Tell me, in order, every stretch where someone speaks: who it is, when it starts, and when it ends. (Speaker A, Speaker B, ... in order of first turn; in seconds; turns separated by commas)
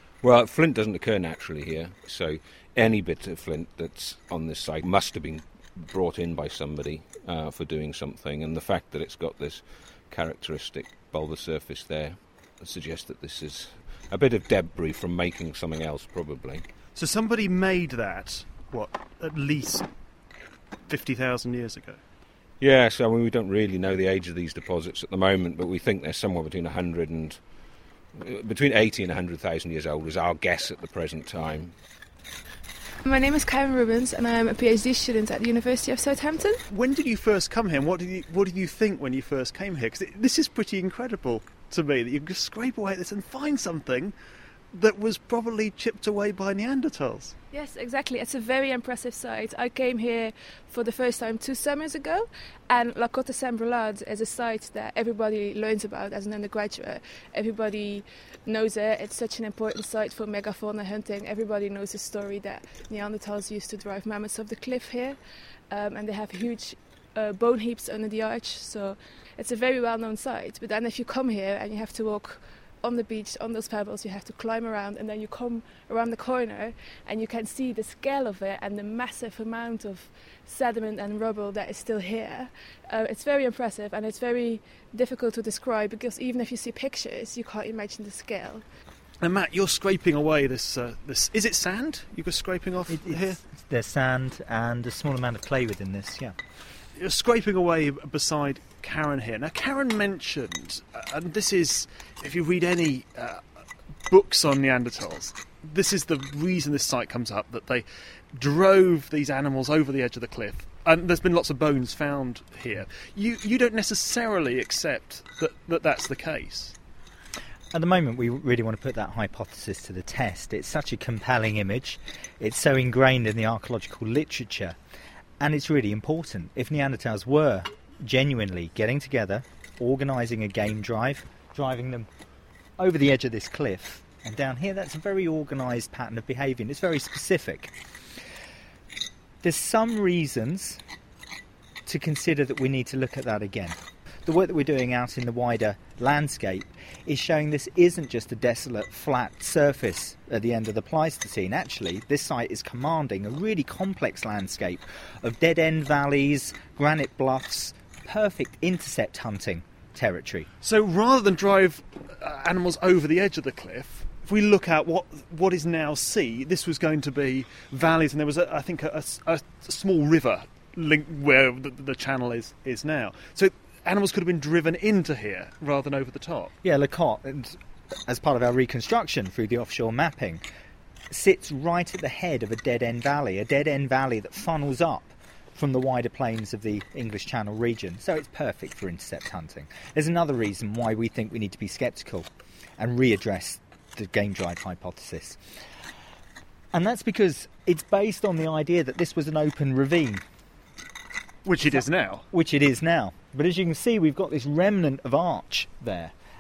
Speaker A: 0.2-16.7, Speaker B: 16.9-19.9, Speaker B: 20.9-22.0, Speaker A: 22.6-27.5, Speaker A: 28.1-31.7, Speaker C: 33.0-36.6, Speaker B: 36.7-44.1, Speaker B: 44.7-47.4, Speaker C: 47.5-88.7, Speaker B: 89.2-93.4, Speaker D: 92.9-96.3, Speaker B: 97.0-103.4, Speaker B: 104.1-116.8, Speaker D: 117.7-124.8, Speaker D: 125.4-132.1, Speaker D: 132.8-137.7, Speaker D: 139.4-140.8, Speaker D: 141.9-160.5, Speaker B: 160.6-176.5, Speaker D: 176.6-177.6, Speaker D: 178.1-180.4, Speaker D: 181.1-195.4, Speaker D: 196.7-200.2, Speaker B: 201.4-202.3, Speaker D: 202.3-206.1